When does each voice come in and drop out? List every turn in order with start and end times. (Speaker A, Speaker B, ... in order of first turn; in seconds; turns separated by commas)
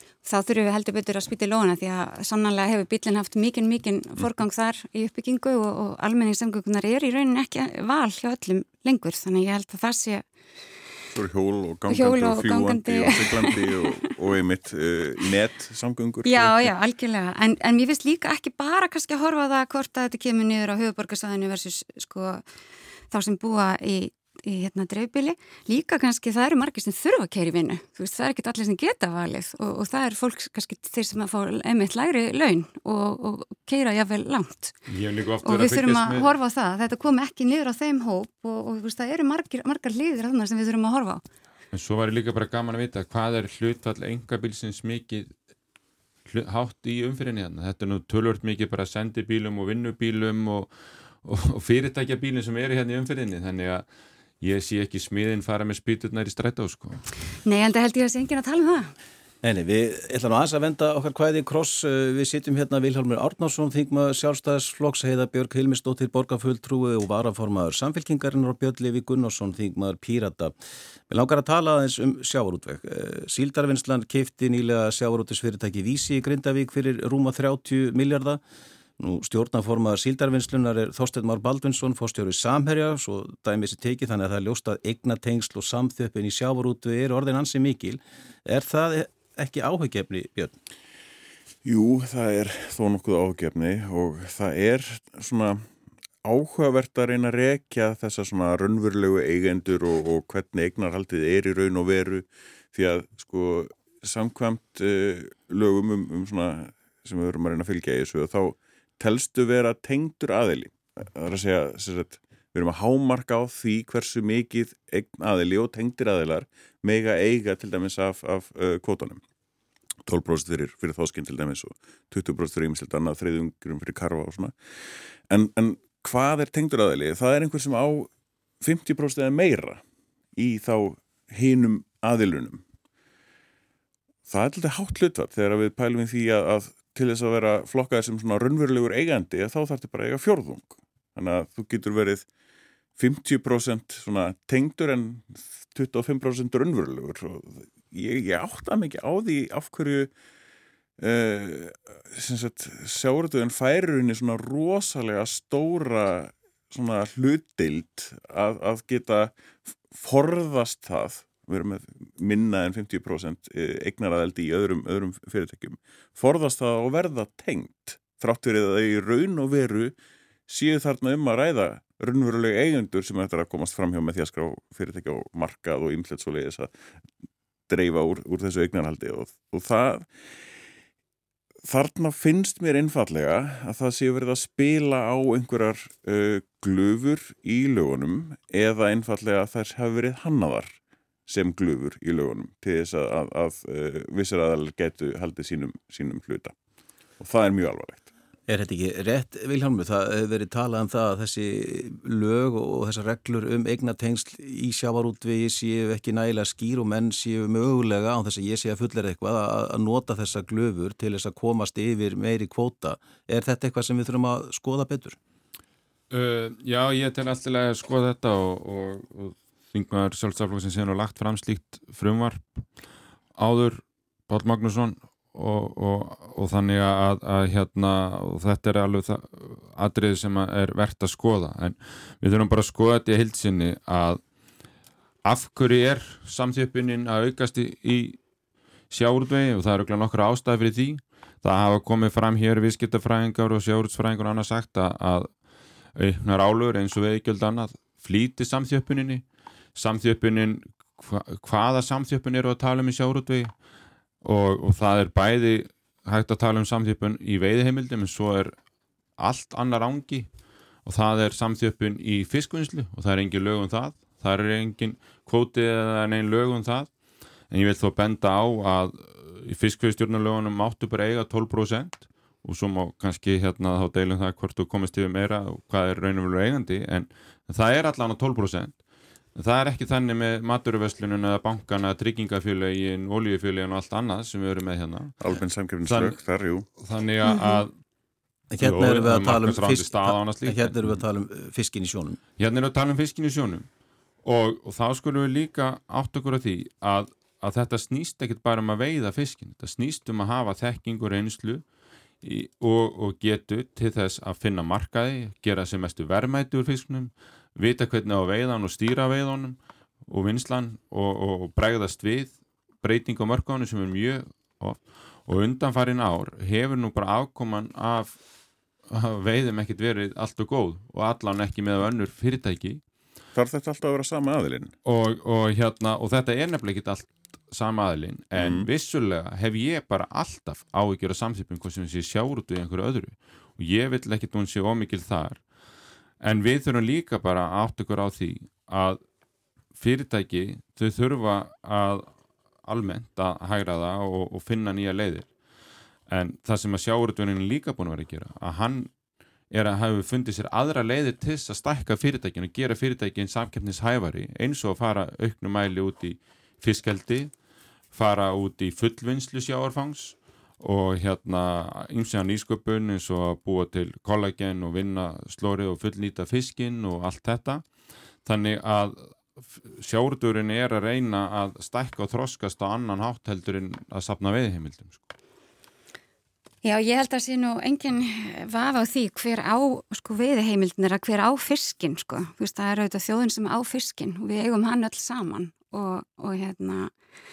Speaker A: 0.2-10.2, Speaker B: 11.1-16.7, Speaker A: 11.9-14.0, Speaker A: 16.2-22.4, Speaker A: 23.1-34.7, Speaker C: 34.9-36.3, Speaker A: 35.4-41.2, Speaker C: 41.7-45.3, Speaker C: 46.3-50.7, Speaker C: 51.2-53.8, Speaker C: 54.4-57.0, Speaker A: 57.4-58.9, Speaker D: 59.4-70.5, Speaker D: 71.1-78.4, Speaker D: 79.0-90.5, Speaker B: 91.6-95.6, Speaker B: 96.2-119.2, Speaker B: 120.0-124.6, Speaker B: 125.3-128.1, Speaker B: 128.6-129.8, Speaker B: 130.3-132.6, Speaker B: 134.3-142.2, Speaker B: 143.0-150.1, Speaker B: 151.0-159.3, Speaker B: 159.9-169.9, Speaker B: 170.5-176.7, Speaker B: 177.7-180.1, Speaker B: 181.7-196.5, Speaker B: 197.2-198.1, Speaker D: 198.5-215.2, Speaker C: 216.1-222.6, Speaker C: 223.4-234.2, Speaker C: 235.2-238.2, Speaker C: 238.9-245.3, Speaker C: 245.9-249.2, Speaker C: 249.7-253.5, Speaker C: 254.2-258.5, Speaker C: 259.2-260.3, Speaker C: 260.8-266.9, Speaker C: 267.5-278.8, Speaker C: 279.3-285.2, Speaker B: 285.2-286.6, Speaker C: 285.9-286.2, Speaker C: 286.8-287.7, Speaker A: 287.2-287.6, Speaker D: 288.5-292.2, Speaker C: 288.6-291.0, Speaker C: 292.4-293.7, Speaker C: 294.2-301.6, Speaker C: 302.2-318.2, Speaker C: 318.9-322.8, Speaker B: 323.3-324.7, Speaker C: 324.8-335.4, Speaker B: 328.4-328.7, Speaker C: 336.2-339.0, Speaker C: 339.8-342.1, Speaker C: 342.6-345.3, Speaker C: 346.1-348.9, Speaker C: 349.5-357.3, Speaker C: 357.9-367.6, Speaker C: 368.2-375.1, Speaker A: 376.6-386.9